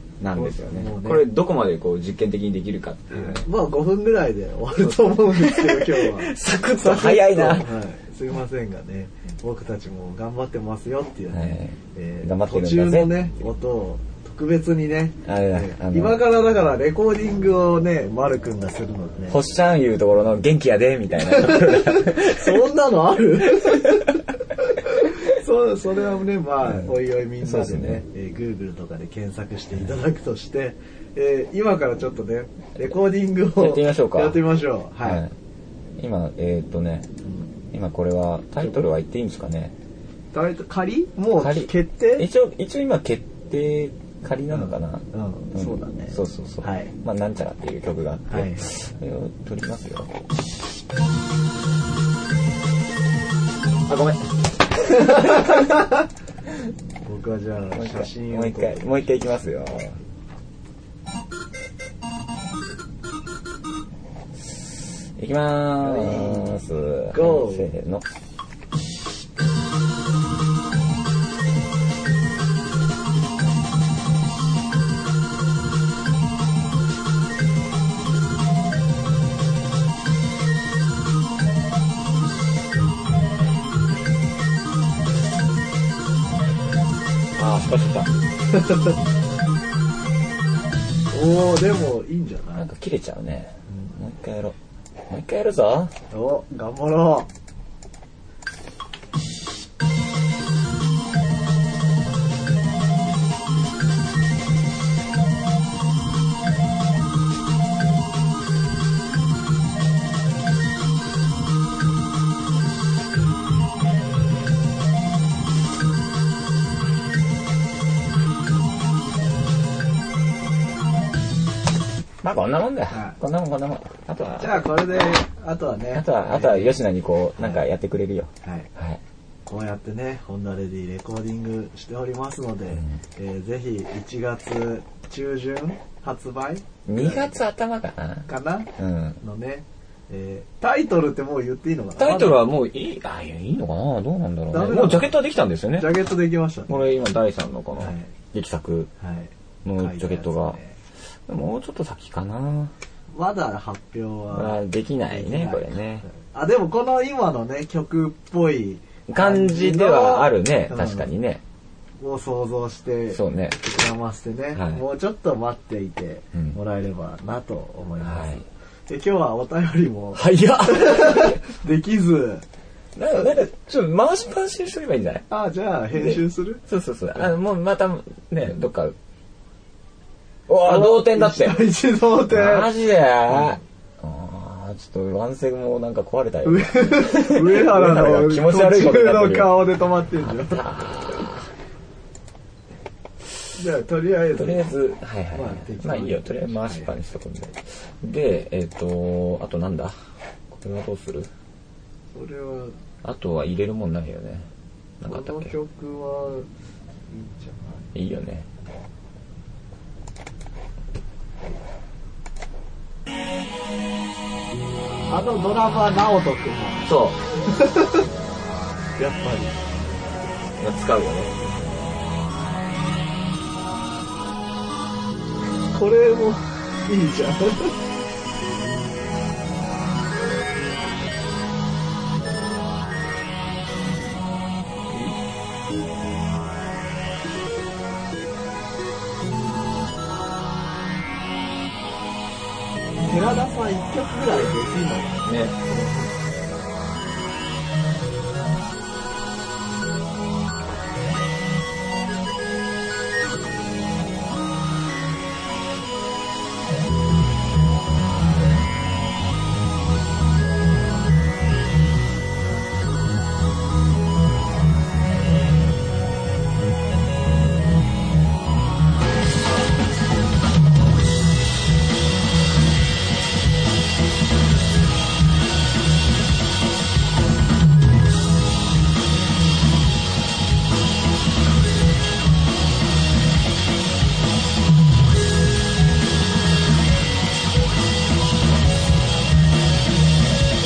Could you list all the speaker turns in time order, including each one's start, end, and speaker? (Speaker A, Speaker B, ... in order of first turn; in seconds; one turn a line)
Speaker A: 0.2-3.5
Speaker B: 0.3-1.2
Speaker B: 3.1-19.4
Speaker A: 4.8-7.7
Speaker A: 11.3-13.1
Speaker A: 15.2-16.2
Speaker A: 19.3-22.6
Speaker B: 21.2-35.2
Speaker A: 23.5-24.1
Speaker A: 26.6-28.0
Speaker A: 33.5-34.4
Speaker A: 35.0-35.3
Speaker A: 36.0-37.1
Speaker B: 37.2-37.5
Speaker A: 37.7-39.7
Speaker B: 40.3-42.3
Speaker A: 41.4-50.1
Speaker B: 44.5-46.9
Speaker B: 48.3-48.7
Speaker A: 53.9-55.8
Speaker B: 55.1-55.8
Speaker B: 57.0-59.0
Speaker A: 57.7-60.0
Speaker A: 64.4-68.1
Speaker B: 65.8-66.5
Speaker B: 67.1-67.7
Speaker A: 87.4-88.1
Speaker B: 88.5-88.9
Speaker B: 91.1-92.7
Speaker A: 92.5-94.6
Speaker A: 95.1-95.9
Speaker B: 96.1-97.3
Speaker A: 122.2-125.1
Speaker B: 122.9-123.2
Speaker B: 124.4-126.8
Speaker A: 125.9-129.0
Speaker B: 127.4-127.7
Speaker B: 128.4-128.7
Speaker B: 129.5-137.4
Speaker A: 132.7-133.0
Speaker A: 136.9-139.2
Speaker B: 138.3-142.4
Speaker A: 142.0-145.9
Speaker B: 144.5-145.2
Speaker B: 145.7-146.9
Speaker A: 146.7-148.9
Speaker B: 147.8-148.1
Speaker B: 149.0-150.8
Speaker A: 149.6-150.6
Speaker A: 151.3-152.7
Speaker B: 153.1-161.1
Speaker A: 154.3-156.1
Speaker A: 159.1-161.4
Speaker B: 162.0-172.4
Speaker A: 163.1-163.6
Speaker A: 164.5-164.8
Speaker A: 166.3-166.6
Speaker A: 168.0-168.5
Speaker A: 170.2-171.4
Speaker A: 173.0-175.2
Speaker B: 175.3-176.6
Speaker A: 175.9-178.9
Speaker A: 180.5-181.7
Speaker B: 180.6-182.7
Speaker A: 182.3-189.6
Speaker B: 183.3-183.6
Speaker B: 186.4-190.6
Speaker A: 190.2-191.5
Speaker B: 193.6-194.7
Speaker A: 194.3-199.9
Speaker B: 195.3-196.9
Speaker A: 200.5-201.3
Speaker B: 202.1-202.8
Speaker A: 203.0-204.5
Speaker A: 205.0-205.5
Speaker B: 205.0-206.5
Speaker B: 207.1-207.9
Speaker A: 207.9-208.5
Speaker B: 215.1-218.1
Speaker A: 216.8-217.2
Speaker B: 219.0-219.6
Speaker A: 220.6-221.4
Speaker B: 225.7-227.8
Speaker B: 243.0-246.2
Speaker A: 245.2-245.6